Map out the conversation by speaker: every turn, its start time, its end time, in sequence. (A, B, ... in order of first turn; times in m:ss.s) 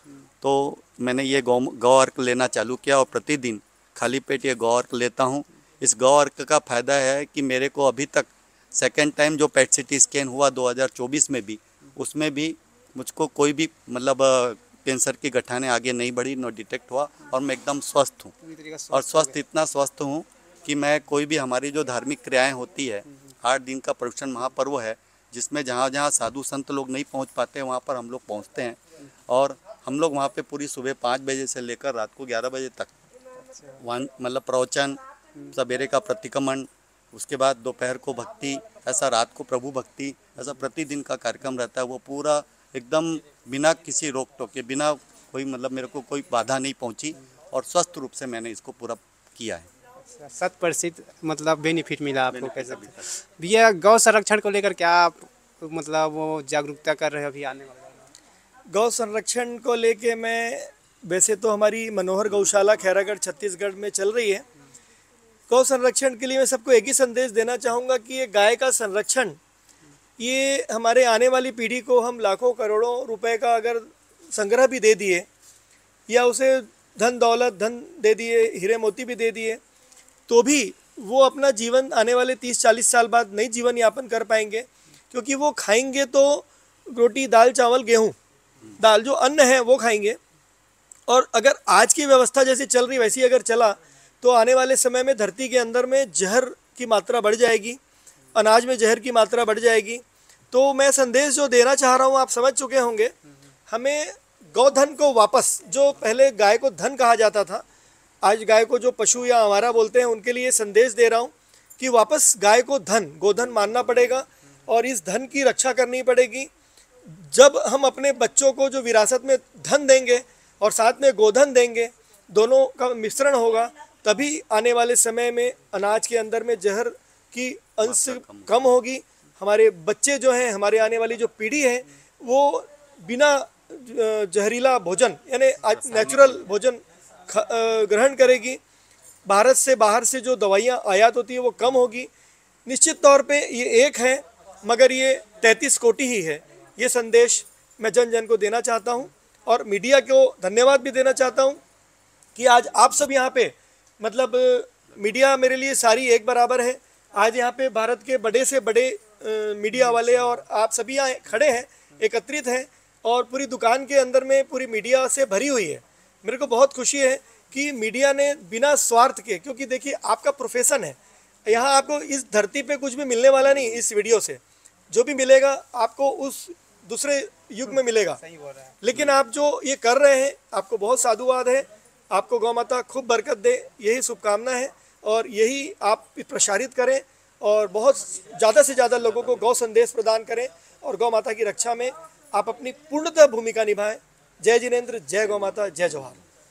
0:00.4-0:18.3 A
0:18.4-0:19.4 B
0:18.9-0:32.9 A
0:33.5-0:33.8 B
0:33.8-0:35.0 A
0:35.5-0:49.7 A
0:50.1-0:58.1 B
0:52.3-0:53.1 A
0:58.7-1:04.4 C
1:05.5-1:09.4 C
1:10.2-1:15.3 C
1:16.1-1:19.6 C
1:20.3-1:28.2 C
1:28.8-1:30.2 C
1:31.1-1:37.8 C
1:38.4-1:43.1 C
1:43.7-1:47.6 C
1:48.2-1:56.5 C
1:57.1-2:18.6 C
2:07.8-2:08.5 A
2:15.8-2:16.4 A
2:19.3-2:22.1 C
2:22.7-2:31.6 C
2:32.4-2:58.2 C
2:57.7-2:58.8 B
2:58.8-3:16.2 C